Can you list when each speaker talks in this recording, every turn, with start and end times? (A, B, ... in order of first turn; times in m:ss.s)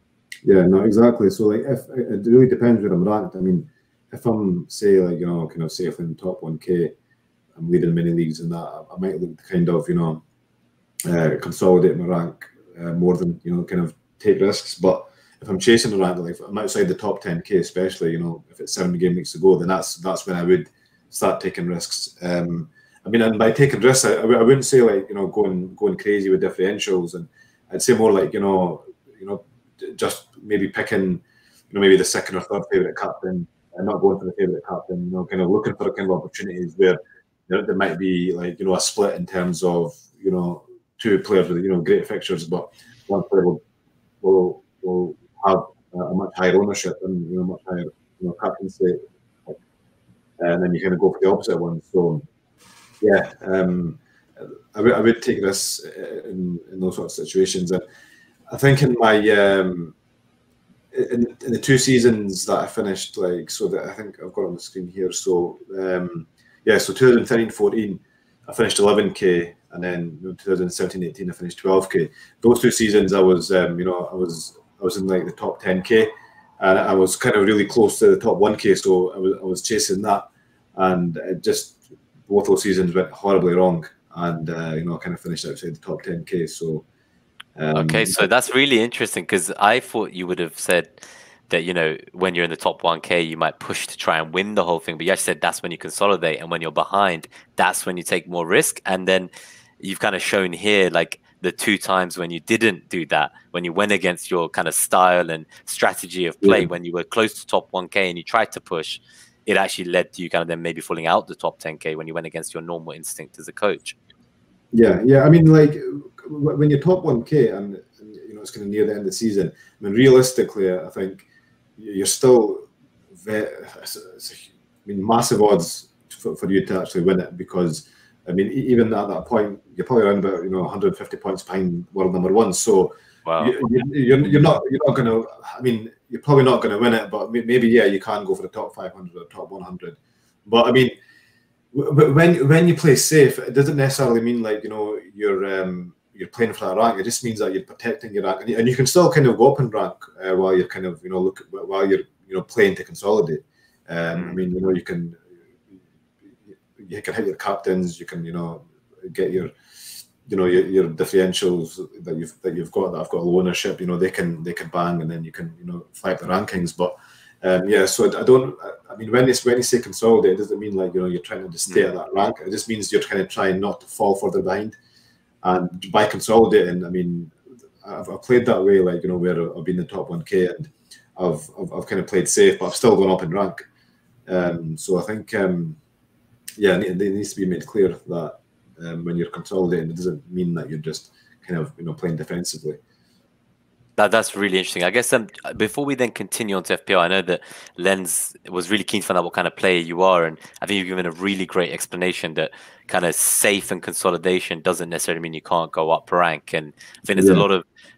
0:00.4-0:06.9 A
0:07.6-0:10.2 A
0:11.0-0:43.6 A
0:44.2-0:49.6 A
0:50.4-0:52.2 A
0:53.0-0:57.8 A
0:58.5-0:59.9 A
1:00.9-1:26.8 A
1:27.6-1:28.2 A
1:27.7-1:39.3 B
1:39.8-1:54.0 B
1:46.4-1:46.7 A
1:54.7-2:01.2 A
2:01.8-2:02.6 A
2:03.2-2:20.9 A
2:13.2-2:13.5 B
2:21.7-2:35.2 A
2:34.1-2:34.4 B
2:36.8-2:39.5 A
2:40.2-2:54.8 A
2:55.4-3:03.6 A
3:04.3-3:05.8 A
3:06.6-3:12.8 A
3:14.0-3:27.6 B
3:27.2-3:27.4 A